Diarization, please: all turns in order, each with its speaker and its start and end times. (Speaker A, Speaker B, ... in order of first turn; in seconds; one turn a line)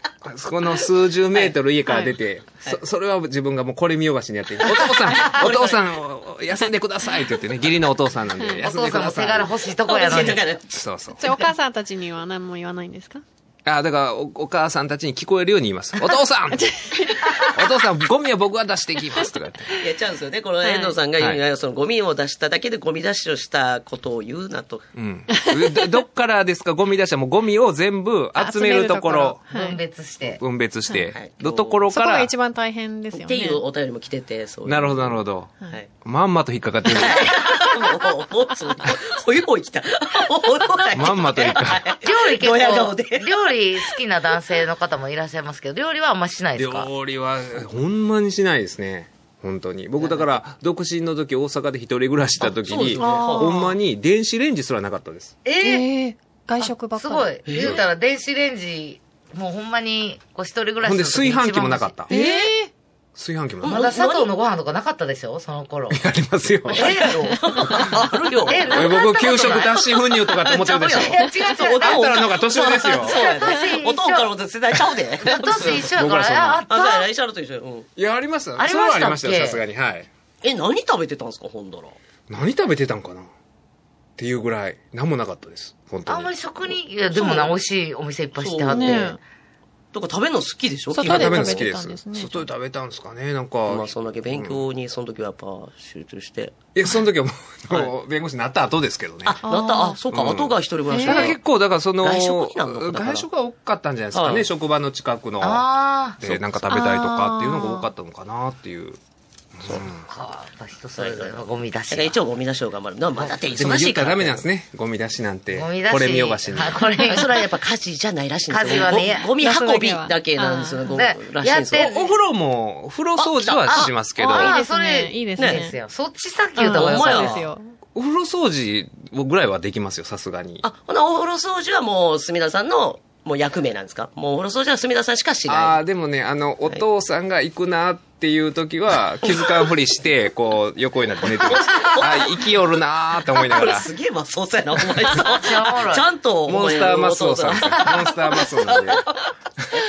Speaker A: 0.2-9.5
Speaker B: 4.7-5.8
Speaker C: 8.6-10.4
Speaker B: 9.8-10.7
Speaker A: 10.7-11.3
Speaker D: 11.2-13.2
Speaker A: 13.6-16.8
Speaker D: 16.6-17.6
Speaker A: 17.4-19.7
Speaker B: 19.8-24.9
Speaker D: 20.6-20.9
Speaker A: 24.9-29.4
Speaker D: 28.4-29.8
Speaker C: 29.5-30.4
Speaker A: 30.4-32.3
Speaker B: 31.1-31.8
Speaker D: 31.9-33.6
Speaker B: 33.1-35.9
Speaker A: 34.6-37.3
Speaker B: 36.9-43.9
Speaker A: 40.9-41.9
Speaker C: 42.0-46.9
Speaker A: 46.5-55.4
Speaker B: 52.4-53.6
Speaker D: 53.0-53.7
Speaker C: 55.4-55.9
Speaker D: 55.6-57.3
Speaker C: 56.6-62.0
Speaker B: 57.5-57.8
Speaker A: 60.8-62.1
Speaker B: 62.1-62.5
Speaker D: 62.1-62.7
Speaker A: 63.1-63.8
Speaker B: 63.6-64.3
Speaker C: 63.6-66.0
Speaker A: 65.9-67.0
Speaker C: 66.7-69.9
Speaker B: 66.7-69.6
Speaker A: 68.7-73.2
Speaker B: 70.3-75.9
Speaker C: 70.9-72.1
Speaker C: 72.8-74.3
Speaker C: 75.2-77.1
Speaker A: 75.6-76.6
Speaker B: 76.7-77.9
Speaker A: 78.0-80.1
Speaker C: 78.6-79.6
Speaker B: 80.4-82.0
Speaker A: 82.3-83.3
Speaker A: 84.2-86.3
Speaker C: 86.0-89.2
Speaker B: 87.1-87.5
Speaker B: 88.4-89.0
Speaker D: 88.7-89.2
Speaker B: 89.9-91.7
Speaker D: 90.9-92.3
Speaker A: 91.0-94.6
Speaker B: 93.7-96.6
Speaker A: 96.7-99.5
Speaker B: 99.2-101.4
Speaker D: 99.5-100.0
Speaker A: 100.1-105.7
Speaker B: 102.0-103.3
Speaker B: 104.1-104.5
Speaker C: 105.4-106.4
Speaker A: 106.2-109.0
Speaker D: 106.7-107.9
Speaker A: 109.6-110.0
Speaker C: 110.1-112.2
Speaker B: 111.0-114.5
Speaker A: 113.5-116.8
Speaker C: 115.5-117.4
Speaker B: 117.0-121.9
Speaker C: 118.5-119.3
Speaker D: 119.4-120.9
Speaker C: 120.9-122.1
Speaker A: 121.7-124.5
Speaker B: 123.2-123.9
Speaker D: 124.2-125.7
Speaker C: 124.3-127.5
Speaker B: 125.4-125.7
Speaker D: 126.6-127.7
Speaker B: 126.6-127.4
Speaker A: 127.9-130.6
Speaker B: 130.6-135.8
Speaker A: 135.5-143.9
Speaker B: 141.5-142.4
Speaker B: 143.3-149.3
Speaker C: 145.1-146.1
Speaker A: 146.4-149.1